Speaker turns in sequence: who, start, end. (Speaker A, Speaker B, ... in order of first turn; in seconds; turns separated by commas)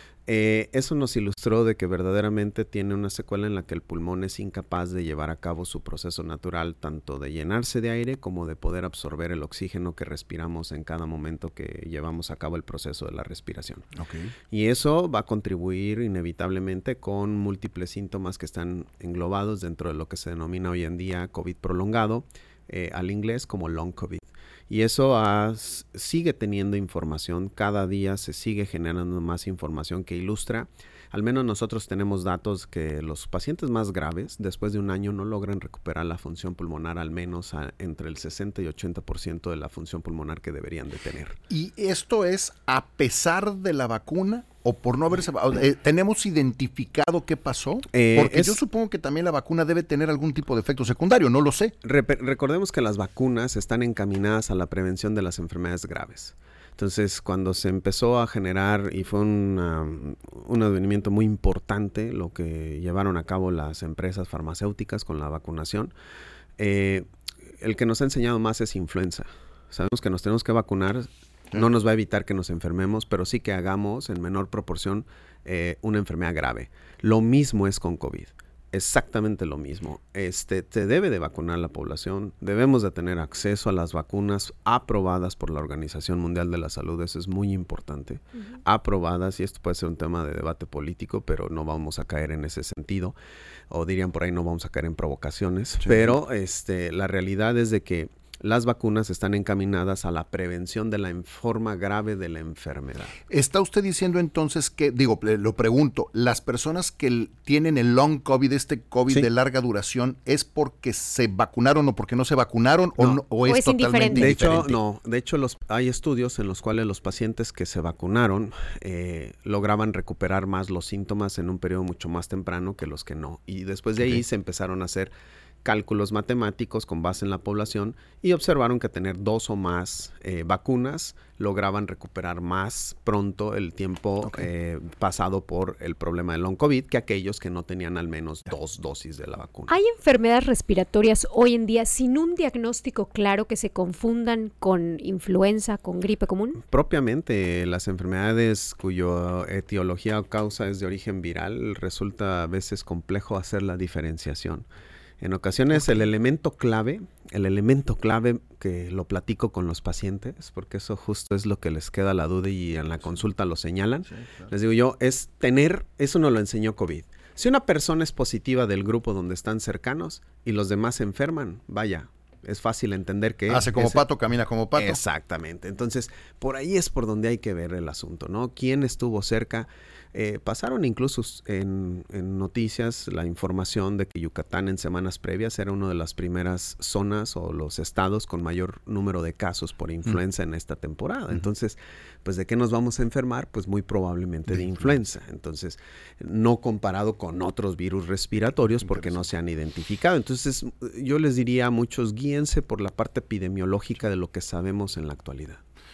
Speaker A: 0.3-13.8, Speaker B: 13.9-14.3, Speaker A: 14.5-41.4, Speaker B: 41.5-51.7, Speaker A: 47.9-48.6, Speaker A: 51.8-65.9, Speaker A: 66.6-67.0, Speaker A: 67.6-93.1, Speaker A: 93.7-103.1, Speaker B: 95.8-96.2, Speaker B: 103.3-114.8, Speaker C: 113.4-114.3, Speaker A: 114.1-125.1, Speaker A: 125.6-139.7, Speaker B: 134.2-134.5, Speaker C: 139.7-146.6, Speaker A: 146.6-154.7, Speaker A: 155.2-174.0, Speaker B: 173.5-175.0, Speaker A: 174.7-205.6, Speaker B: 198.7-199.2